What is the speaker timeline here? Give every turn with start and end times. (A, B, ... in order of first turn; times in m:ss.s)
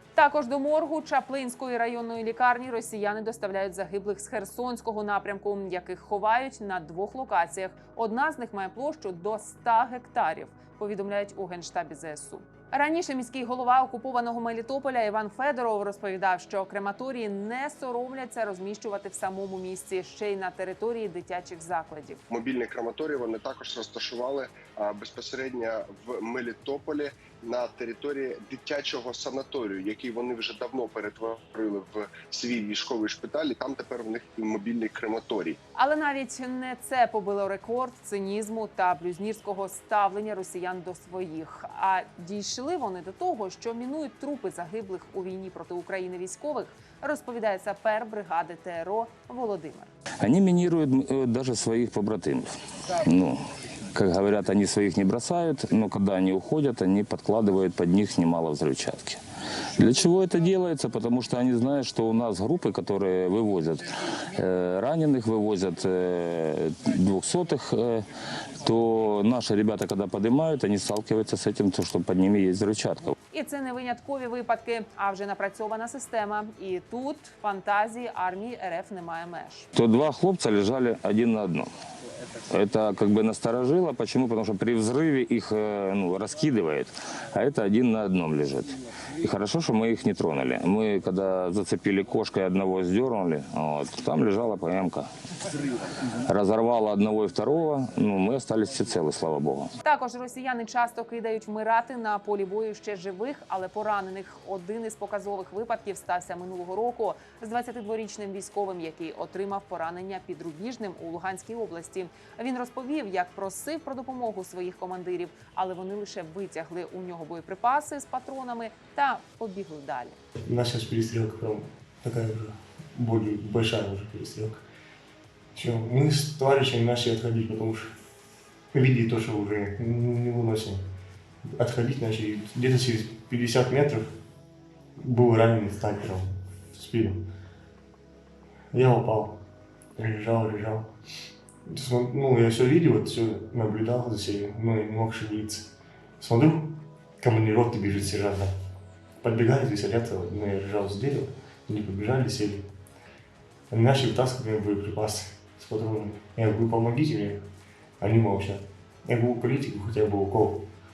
0:00.2-0:22.2 A
0:22.3-0:35.6 B
0:35.7-0:49.9 A
0:50.2-0:52.5 C
0:53.0-0:53.4 C
0:53.9-0:59.2 C
0:59.7-1:08.0 C
1:08.6-1:13.1 C
1:13.3-1:19.7 A
1:19.7-1:21.7 C
1:22.5-1:35.1 C
1:36.2-1:39.7 C
1:39.8-2:00.2 A
2:00.4-2:04.6 D
2:05.5-2:07.9 D
2:08.7-2:10.8 D
2:11.4-2:14.1 D
2:15.0-2:17.2 D
2:18.7-2:19.4 D
2:20.0-2:20.9 D
2:21.7-2:28.5 D
2:29.2-2:32.7 D
2:33.7-2:37.4 D
2:38.0-2:40.7 D